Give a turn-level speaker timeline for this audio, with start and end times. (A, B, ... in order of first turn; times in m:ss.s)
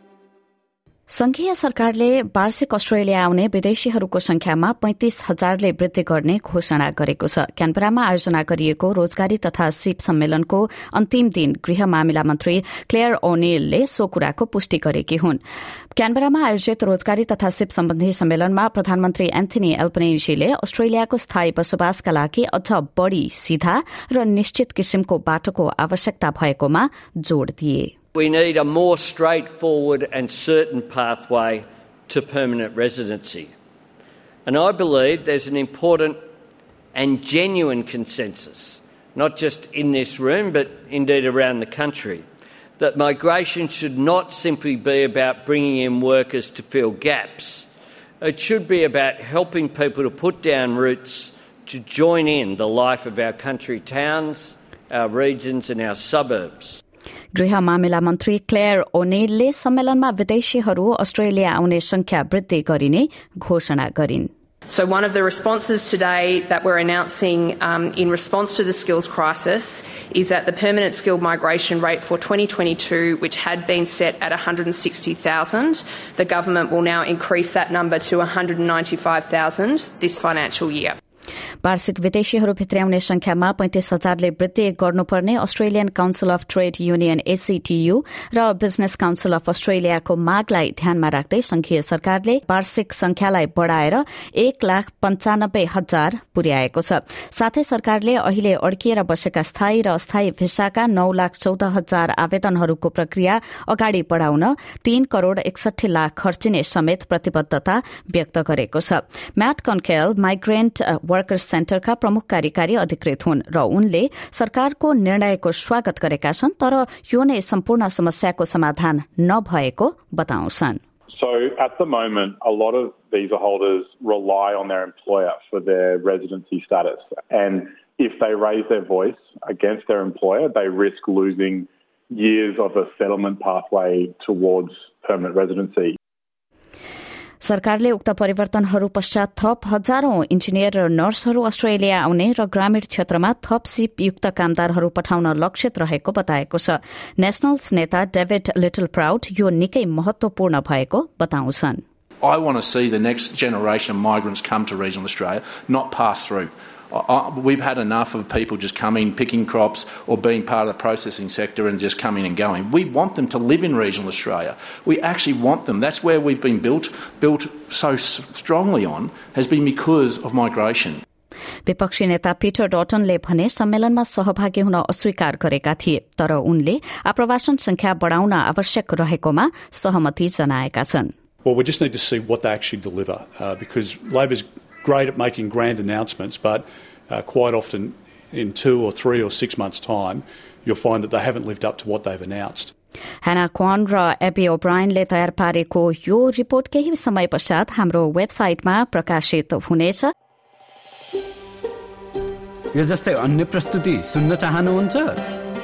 0:01.1-0:15.4 A
0:15.9-0:27.9 A
0:28.2-0:33.5 B
0:34.4-0:36.2 B
0:36.9-0:42.2 B
0:42.8-0:47.7 B
0:48.2-0:56.8 B
0:57.3-1:04.3 A
1:04.7-1:20.9 C
1:21.6-2:00.8 A
2:01.1-2:16.0 D
2:17.4-2:31.8 A
2:32.2-2:51.0 E
2:51.6-3:01.1 A
3:01.4-3:12.7 F
3:13.2-3:20.1 A
3:22.7-3:25.2 G